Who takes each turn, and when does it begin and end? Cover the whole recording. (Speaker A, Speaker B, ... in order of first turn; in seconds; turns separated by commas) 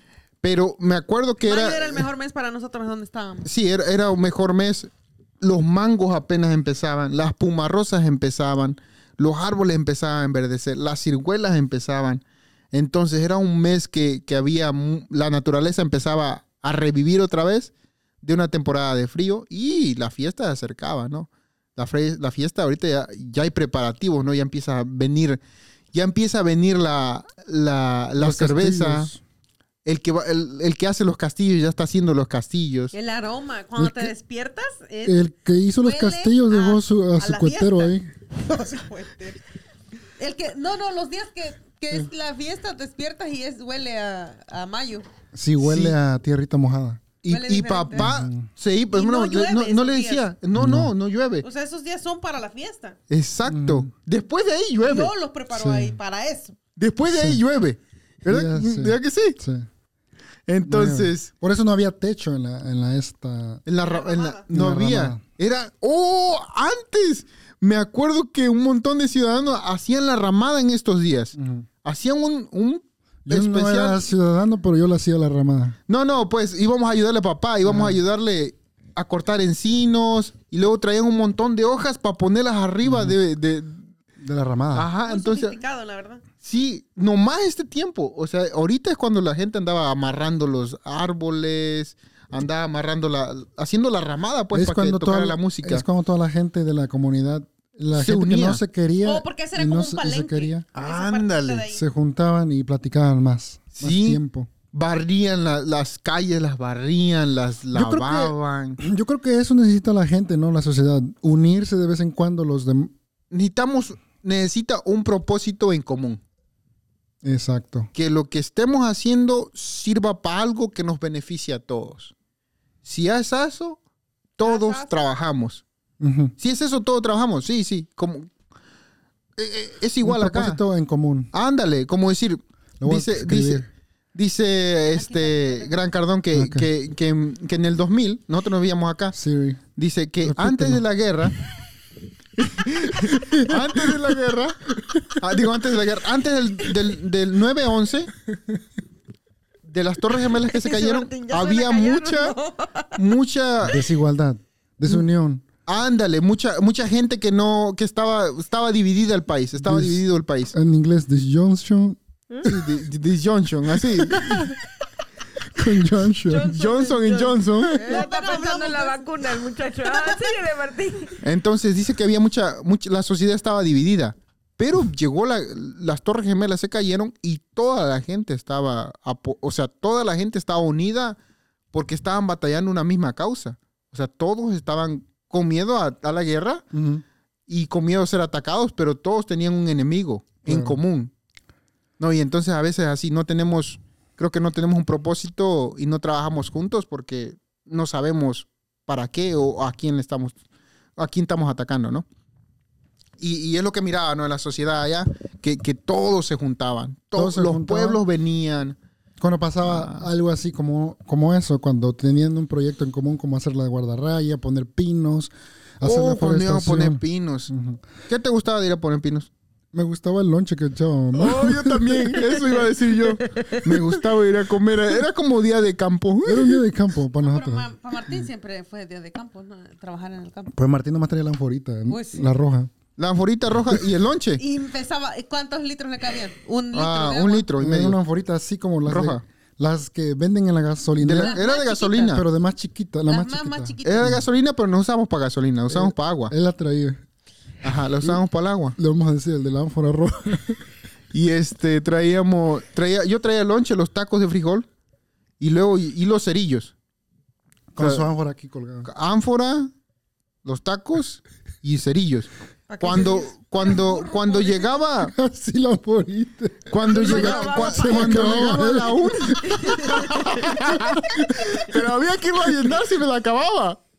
Speaker A: 0.4-2.1, Speaker B: 1.4-3.5, Speaker A: 3.5-25.4, Speaker A: 25.9-29.1, Speaker C: 28.2-29.2, Speaker A: 29.9-32.9, Speaker B: 32.9-35.2, Speaker C: 33.8-34.1, Speaker C: 35.0-38.1, Speaker B: 35.8-39.4, Speaker B: 40.2-45.1, Speaker C: 45.3-47.0, Speaker A: 45.6-46.0, Speaker A: 47.2-51.5, Speaker B: 47.3-48.1, Speaker C: 47.9-48.5, Speaker B: 48.9-50.3, Speaker C: 50.5-50.9, Speaker B: 51.4-53.0, Speaker A: 53.1-55.1, Speaker C: 53.5-53.9, Speaker B: 54.9-56.6, Speaker C: 55.5-56.0, Speaker A: 56.8-59.4, Speaker C: 57.0-57.4, Speaker C: 58.3-59.7, Speaker A: 60.5-61.3, Speaker C: 60.6-63.6, Speaker A: 63.7-74.1, Speaker B: 63.8-64.5, Speaker C: 64.5-65.2, Speaker C: 71.3-71.7, Speaker C: 73.3-75.8, Speaker A: 75.9-83.8, Speaker C: 77.6-78.0, Speaker C: 82.8-83.2, Speaker C: 84.2-84.9, Speaker A: 84.7-85.6, Speaker B: 85.0-86.2, Speaker A: 86.4-95.8, Speaker C: 94.5-100.7, Speaker A: 98.0-98.6, Speaker B: 99.0-101.9, Speaker A: 100.8-101.7, Speaker C: 101.7-104.5, Speaker A: 103.7-108.8, Speaker C: 107.7-112.9, Speaker A: 113.3-116.2, Speaker C: 117.2-117.9, Speaker A: 117.9-122.1, Speaker A: 122.8-123.8, Speaker A: 124.4-125.6, Speaker B: 124.4-125.0, Speaker C: 126.0-126.3, Speaker A: 126.4-128.3, Speaker A: 129.4-130.6, Speaker C: 130.0-131.3, Speaker A: 131.3-139.2, Speaker C: 132.8-133.7, Speaker B: 134.9-135.8, Speaker C: 136.3-136.7, Speaker C: 139.1-139.6, Speaker A: 139.8-141.3, Speaker C: 140.2-140.8, Speaker A: 142.4-148.1, Speaker C: 143.3-143.8, Speaker A: 149.6-152.3, Speaker D: 150.3-153.1, Speaker A: 153.0-153.8, Speaker C: 153.6-155.4, Speaker A: 155.7-160.5, Speaker C: 159.6-162.7, Speaker A: 162.4-164.5, Speaker C: 164.1-164.5, Speaker C: 165.5-166.6, Speaker B: 166.3-169.0, Speaker D: 166.3-171.2, Speaker A: 166.4-167.8, Speaker B: 169.8-170.3, Speaker A: 171.2-181.2, Speaker A: 181.7-186.7, Speaker C: 186.7-187.0, Speaker A: 187.5-191.1, Speaker C: 190.5-190.8, Speaker A: 192.0-200.4, Speaker A: 201.0-202.1, Speaker A: 203.2-208.8, Speaker C: 207.2-208.0, Speaker C: 209.2-217.8, Speaker A: 209.6-210.1, Speaker A: 215.8-217.5, Speaker A: 218.1-219.3, Speaker C: 219.7-222.2, Speaker A: 221.2-226.6, Speaker D: 223.0-223.8, Speaker C: 226.2-227.7, Speaker B: 227.2-230.6, Speaker C: 230.6-232.7, Speaker B: 231.9-232.3, Speaker A: 233.0-234.4, Speaker B: 234.4-237.5, Speaker A: 236.7-238.0, Speaker C: 237.6-241.4, Speaker A: 238.9-239.2, Speaker A: 241.0-242.2, Speaker B: 241.2-242.2, Speaker C: 242.0-244.3, Speaker B: 243.1-244.2, Speaker A: 243.8-246.3, Speaker C: 245.7-247.0, Speaker A: 247.6-248.8, Speaker C: 248.8-250.6, Speaker A: 251.1-254.7, Speaker A: 255.4-256.7, Speaker C: 257.7-258.9, Speaker A: 257.8-258.1, Speaker A: 258.9-259.7, Speaker A: 260.4-265.1, Speaker D: 262.7-263.7, Speaker B: 262.9-264.8, Speaker C: 265.1-271.8, Speaker A: 266.7-273.8, Speaker D: 266.9-270.8